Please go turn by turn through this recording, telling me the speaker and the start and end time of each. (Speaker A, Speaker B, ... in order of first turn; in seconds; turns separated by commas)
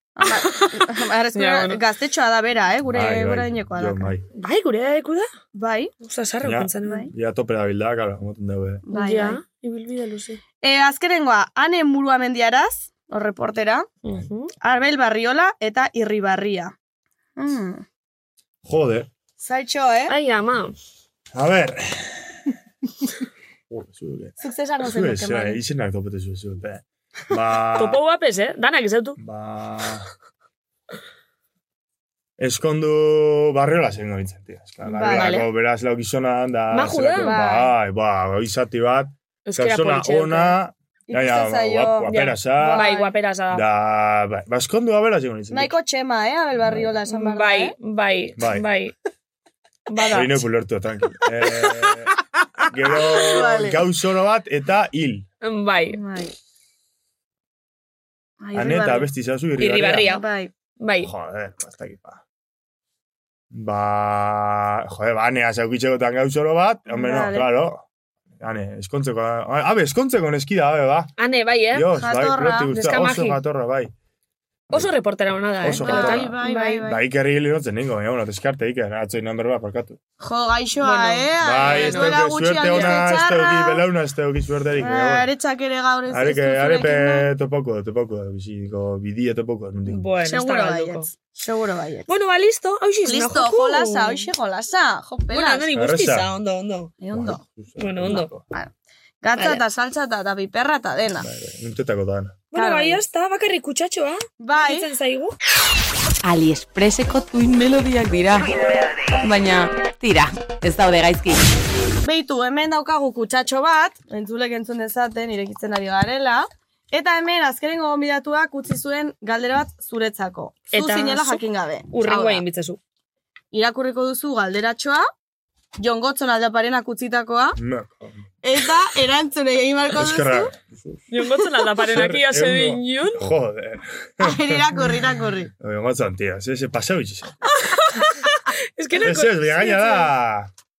Speaker A: 0.2-4.1, Speaker B: 0.3-1.8, Speaker C: 2.9-4.2, Speaker B: 4.3-5.3, Speaker A: 5.5-5.9, Speaker B: 6.0-7.1, Speaker C: 6.4-8.8, Speaker A: 8.9-9.4, Speaker B: 8.9-10.4, Speaker A: 10.6-13.9, Speaker B: 14.0-14.5, Speaker A: 14.6-16.7, Speaker A: 17.4-17.9, Speaker C: 18.6-19.1, Speaker A: 19.4-20.1, Speaker B: 20.1-20.7, Speaker C: 21.3-22.5, Speaker C: 23.7-28.0, Speaker A: 24.4-25.6, Speaker B: 27.8-29.2, Speaker C: 29.2-30.1, Speaker C: 32.4-42.9, Speaker B: 34.9-35.5, Speaker A: 34.9-35.5, Speaker B: 36.7-37.4, Speaker A: 37.1-37.7, Speaker B: 39.5-40.6, Speaker A: 41.1-43.1, Speaker B: 42.1-43.6, Speaker C: 43.5-45.7, Speaker A: 45.5-47.8, Speaker C: 46.6-46.9, Speaker B: 47.1-48.9, Speaker C: 48.4-48.6, Speaker B: 49.9-50.4, Speaker C: 50.1-52.1, Speaker B: 51.5-51.9, Speaker A: 52.6-53.8, Speaker C: 52.7-55.3, Speaker B: 55.4-56.0, Speaker A: 56.0-56.3, Speaker A: 58.4-59.1, Speaker C: 58.5-60.1, Speaker B: 59.6-60.2, Speaker A: 59.9-60.5, Speaker B: 60.8-61.1, Speaker C: 61.0-62.2, Speaker C: 63.5-67.9, Speaker A: 66.9-67.5, Speaker C: 68.4-71.1, Speaker B: 71.2-71.9, Speaker C: 71.7-73.9, Speaker A: 71.9-72.7, Speaker B: 72.7-73.4, Speaker B: 74.7-76.8, Speaker C: 75.6-80.0, Speaker A: 75.7-77.0, Speaker A: 80.2-83.8, Speaker B: 80.8-83.2, Speaker C: 81.4-85.3, Speaker A: 84.8-87.3, Speaker C: 86.1-90.1, Speaker B: 89.9-91.1, Speaker A: 90.2-92.1, Speaker B: 92.1-94.3, Speaker A: 93.0-95.7, Speaker B: 95.3-96.9, Speaker C: 95.7-96.3, Speaker A: 97.0-97.4, Speaker C: 97.1-98.5, Speaker B: 97.8-98.3, Speaker A: 99.2-101.3, Speaker B: 99.4-99.6, Speaker C: 101.2-102.5, Speaker B: 102.5-105.3, Speaker A: 102.5-103.0, Speaker A: 104.4-104.9, Speaker D: 106.2-108.5, Speaker D: 109.2-111.4, Speaker A: 112.0-122.4, Speaker B: 120.7-122.8, Speaker A: 123.5-125.0, Speaker A: 125.8-127.6, Speaker C: 127.6-128.3, Speaker A: 128.4-130.5, Speaker C: 129.9-131.1, Speaker B: 131.1-133.3, Speaker C: 131.9-135.0, Speaker A: 134.2-135.5, Speaker C: 135.6-137.4, Speaker B: 137.6-140.1, Speaker C: 139.0-140.5